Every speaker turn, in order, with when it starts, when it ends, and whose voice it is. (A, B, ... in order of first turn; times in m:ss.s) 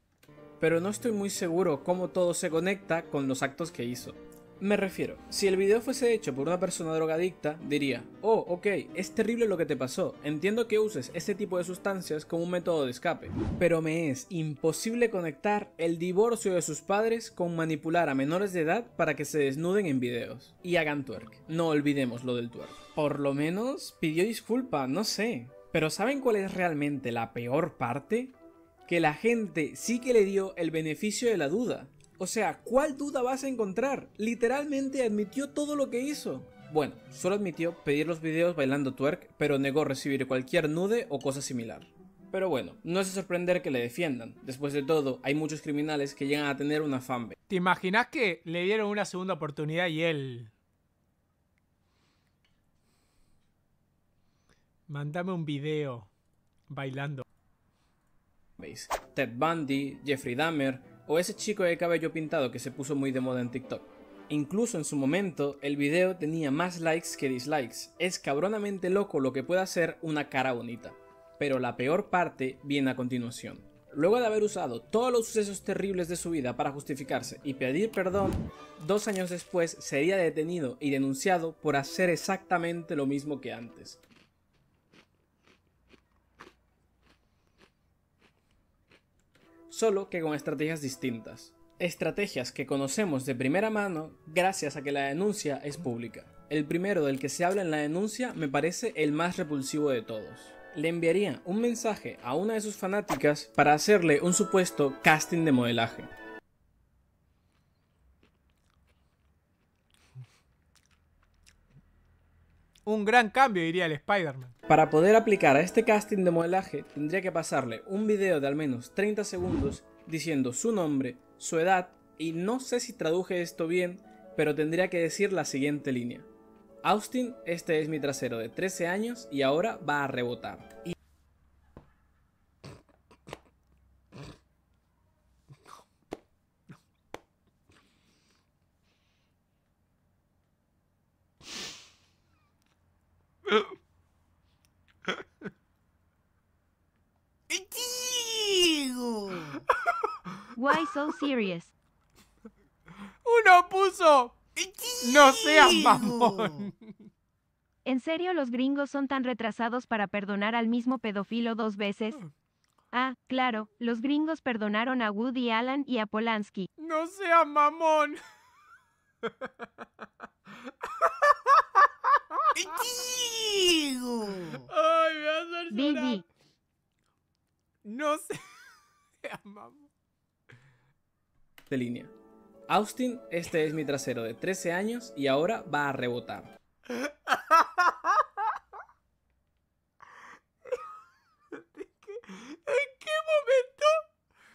0:00.6-0:47.4 A
0:47.5-0:50.5 B
0:54.9-0:56.1 B
0:56.7-0:57.2 B
0:58.6-1:24.0 A
1:29.7-1:46.1 A
1:52.8-1:54.5 B
1:54.7-2:06.3 A
2:06.8-2:11.0 A
2:29.3-2:29.7 B
2:30.6-2:31.7 C
2:33.2-2:34.4 B
2:34.9-2:37.0 B
2:37.8-2:42.2 C
2:42.9-2:46.7 C
2:46.8-2:48.2 B
2:49.2-2:49.6 B
2:50.6-2:56.2 B
2:55.7-2:56.2 C
2:57.8-2:59.9 B
3:01.7-3:02.1 A
3:02.7-3:06.5 A
3:06.9-3:08.3 B
3:11.5-3:13.9 B